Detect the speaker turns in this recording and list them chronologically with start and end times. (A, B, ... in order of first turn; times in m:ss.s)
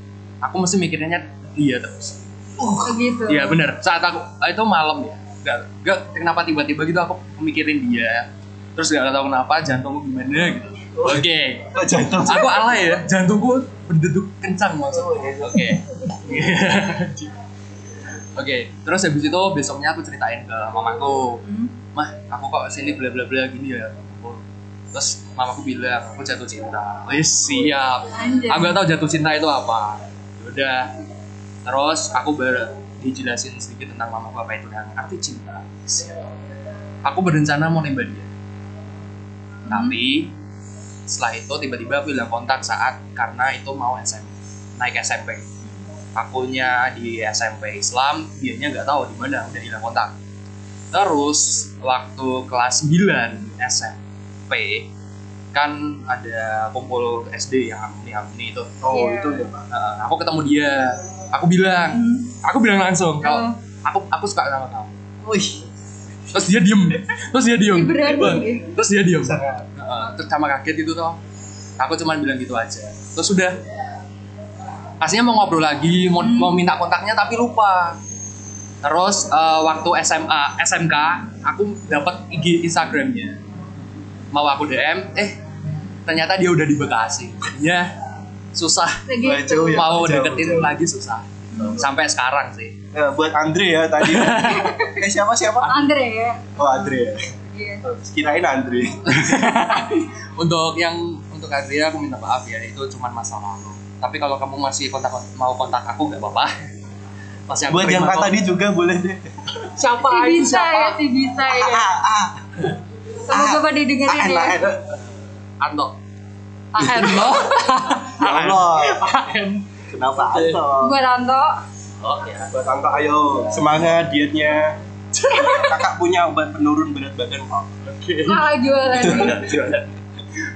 0:00.4-0:02.2 A
0:02.6-0:03.0 B
0:02.8-0:03.6 C
0:03.3-0:17.3 A
0:11.0-0:12.8 B
0:14.9-0:15.8 B
0:18.4-0:21.4 A
0:21.4-0:21.7 C
0:21.9-0:30.9 A
0:28.1-0:28.8 C
0:31.6-0:36.3 A
0:37.0-0:38.3 A
0:39.6-0:39.9 C
0:39.7-0:40.3 A
0:41.1-0:45.4 A
0:46.1-0:50.1 A
0:50.9-0:54.9 A
0:55.5-0:58.7 A
0:58.8-0:59.7 B
0:58.9-0:59.4 C
0:59.7-1:05.0 A
1:01.9-1:02.3 C
1:03.2-1:03.6 C
1:05.2-1:05.7 B
1:06.2-1:06.5 B
1:06.3-1:11.2 A
1:07.7-1:08.7 C
1:09.2-1:09.7 B
1:11.8-1:13.6 A
1:15.0-1:18.0 A
1:16.2-1:16.6 C
1:18.8-1:23.4 A
1:24.3-1:25.3 A
1:26.0-1:27.9 A
1:28.5-1:29.0 A
1:29.0-1:29.8 C
1:29.2-1:30.8 B
1:29.7-1:32.8 A
1:32.9-1:35.8 B
1:34.0-1:34.7 A
1:34.4-1:35.0 C
1:35.6-1:36.4 C
1:36.6-1:37.2 B
1:37.5-1:37.8 C
1:37.8-1:39.5 B
1:39.1-1:46.5 A
1:47.5-1:48.4 A
1:47.7-1:49.6 B
1:49.7-1:51.0 A
1:50.0-1:51.8 C
1:51.5-1:52.5 B
1:53.2-1:54.6 C
1:53.3-1:55.0 B
1:55.6-1:55.9 A
1:56.7-2:00.6 A
1:56.8-1:57.4 B
1:58.2-1:59.1 B
1:59.9-2:01.0 B
2:00.8-2:01.6 C
2:02.0-2:02.6 A
2:02.5-2:04.8 B
2:05.2-2:05.8 A
2:05.3-2:07.8 B
2:07.8-2:09.9 A
2:08.3-2:09.4 C
2:09.0-2:09.4 B